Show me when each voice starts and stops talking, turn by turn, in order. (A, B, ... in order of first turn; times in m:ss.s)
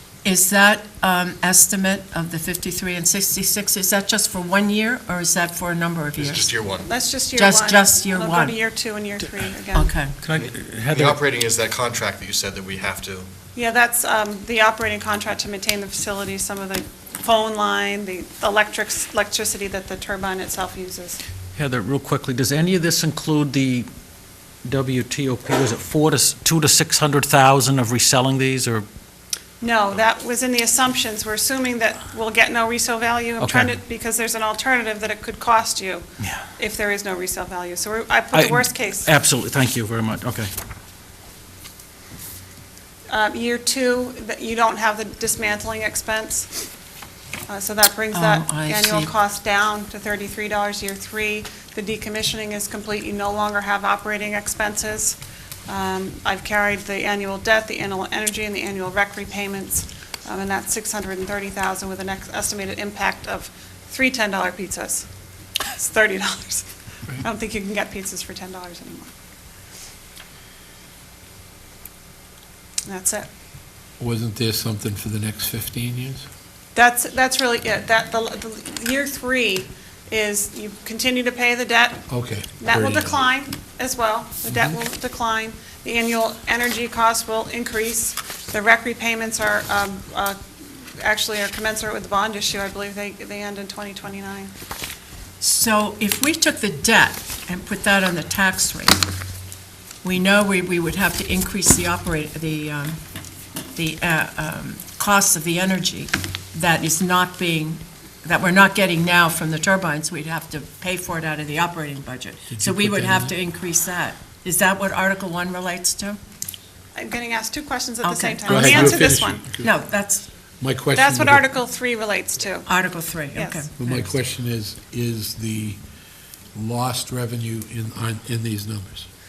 0:00.2-0:06.5 A
0:06.2-0:06.9 B
0:06.9-0:09.9 C
0:07.3-0:08.6 A
0:09.7-0:10.1 A
0:10.2-0:11.2 D
0:10.3-0:13.3 B
0:13.5-0:21.2 C
0:21.5-0:23.9 D
0:24.6-0:28.8 D
0:29.6-0:39.1 C
0:33.4-0:33.7 D
0:38.3-0:40.5 D
0:43.1-0:46.7 C
0:47.5-1:05.1 C
0:48.1-0:49.1 A
1:05.6-1:09.1 C
1:12.8-1:13.3 C
1:14.0-1:16.2 E
1:16.7-1:22.0 C
1:22.1-1:23.2 E
1:22.6-1:30.4 C
1:31.0-1:34.5 C
1:35.4-1:39.0 A
1:40.0-1:43.0 A
1:43.7-1:56.2 A
1:52.5-1:53.3 E
1:57.0-1:59.4 C
1:58.0-1:59.0 A
1:58.5-1:59.7 E
1:59.6-2:00.2 A
2:00.6-2:01.5 E
2:00.9-2:03.6 C
2:02.6-2:04.1 A
2:03.8-2:05.8 E
2:06.5-2:09.1 E